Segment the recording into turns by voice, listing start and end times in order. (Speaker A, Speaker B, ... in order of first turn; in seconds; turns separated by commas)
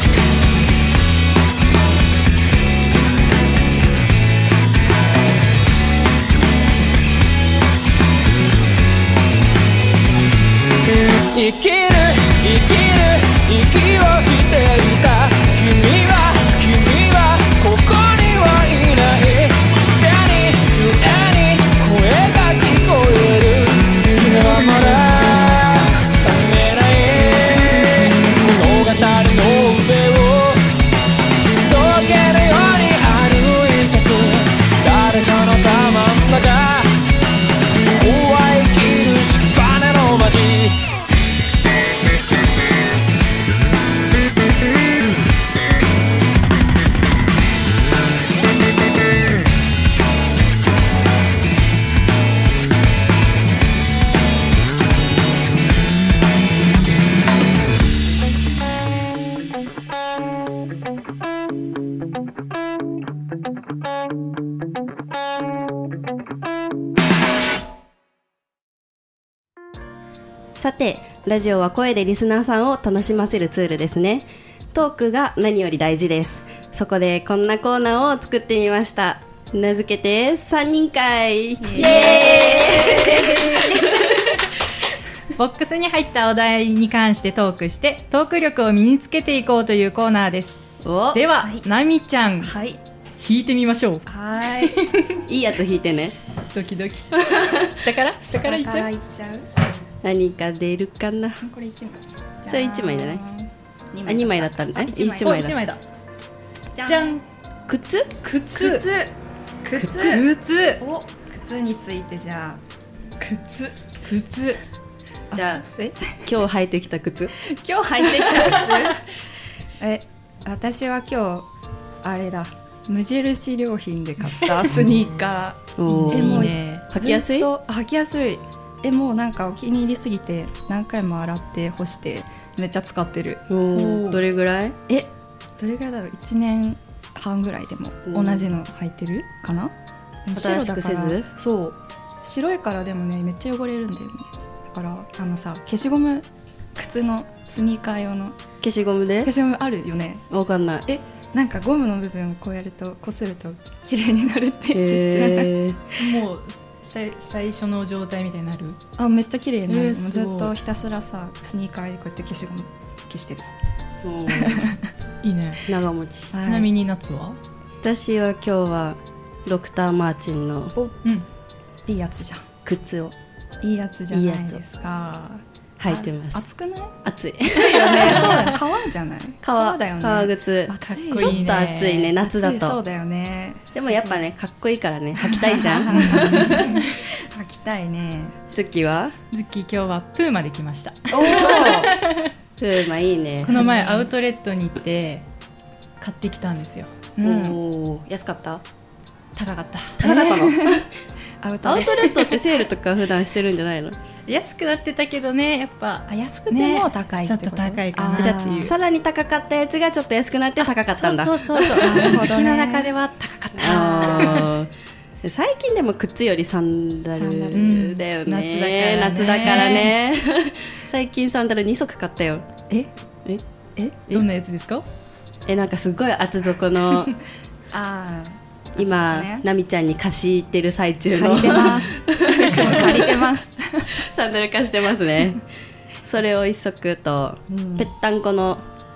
Speaker A: 10.9-30.7, Speaker A: 31.6-37.0, Speaker A: 37.9-40.9, Speaker B: 70.6-84.3, Speaker C: 81.6-83.8, Speaker D: 81.8-82.2, Speaker D: 85.3-90.6, Speaker B: 90.8-91.2, Speaker D: 91.1-92.5, Speaker C: 91.4-91.7, Speaker C: 92.4-92.8, Speaker D: 93.2-94.1, Speaker C: 94.1-95.0, Speaker D: 94.6-95.1, Speaker B: 95.2-96.2, Speaker D: 96.5-98.9, Speaker B: 97.2-97.7, Speaker C: 98.2-99.5, Speaker B: 100.0-101.4, Speaker C: 101.4-104.7, Speaker B: 102.5-103.2, Speaker B: 104.1-105.6, Speaker D: 104.8-105.8, Speaker C: 106.8-107.2, Speaker D: 106.8-107.2, Speaker B: 107.7-108.2, Speaker D: 108.2-109.0, Speaker C: 108.5-109.1, Speaker C: 109.6-112.6, Speaker D: 109.8-110.8, Speaker C: 113.2-113.8, Speaker D: 114.0-114.6, Speaker C: 115.3-116.2, Speaker B: 115.3-115.6, Speaker B: 116.2-117.3, Speaker C: 117.4-119.1, Speaker C: 119.8-121.5, Speaker C: 122.0-134.2, Speaker B: 125.8-127.5, Speaker D: 125.9-126.8, Speaker B: 133.5-134.8, Speaker C: 135.6-139.7, Speaker B: 138.1-138.5, Speaker C: 140.2-148.4, Speaker B: 140.3-141.3, Speaker B: 148.6-149.3, Speaker C: 149.2-150.3, Speaker B: 150.3-150.8, Speaker C: 150.9-155.6, Speaker B: 154.7-155.8, Speaker D: 156.0-158.8, Speaker C: 159.0-163.5, Speaker D: 159.7-160.5, Speaker B: 164.0-164.7, Speaker C: 164.3-164.9, Speaker D: 165.2-165.7, Speaker B: 165.7-166.3, Speaker C: 166.3-166.7, Speaker D: 166.3-167.4, Speaker B: 167.8-170.8, Speaker C: 171.9-172.5, Speaker B: 172.7-173.2, Speaker C: 173.6-177.0, Speaker B: 174.1-174.6, Speaker B: 175.8-176.4, Speaker B: 177.0-178.6, Speaker C: 177.5-181.6, Speaker D: 178.1-178.4, Speaker B: 179.4-182.8, Speaker D: 180.9-182.1, Speaker C: 182.2-184.2, Speaker B: 183.8-186.6, Speaker C: 185.2-188.4, Speaker D: 185.9-186.9, Speaker B: 188.5-189.2, Speaker D: 189.3-192.3, Speaker C: 191.1-191.9, Speaker B: 192.6-193.6, Speaker D: 193.4-195.2, Speaker C: 193.5-194.1, Speaker D: 196.0-196.9, Speaker C: 197.2-197.6, Speaker B: 197.2-198.6, Speaker D: 199.4-200.0, Speaker B: 200.0-200.9, Speaker C: 200.0-200.9, Speaker C: 201.4-202.4, Speaker B: 201.6-204.0, Speaker D: 204.3-208.7, Speaker C: 206.1-208.7, Speaker B: 208.2-212.2, Speaker D: 210.6-214.5, Speaker C: 211.7-212.9, Speaker B: 213.6-214.7, Speaker C: 213.7-214.4, Speaker B: 215.2-222.4, Speaker C: 217.2-217.8, Speaker D: 217.5-220.0, Speaker D: 224.1-224.8, Speaker B: 225.5-227.2, Speaker C: 227.7-229.4, Speaker B: 228.8-233.3, Speaker C: 231.1-233.9, Speaker B: 233.9-235.4, Speaker B: 236.0-238.7, Speaker C: 237.5-237.9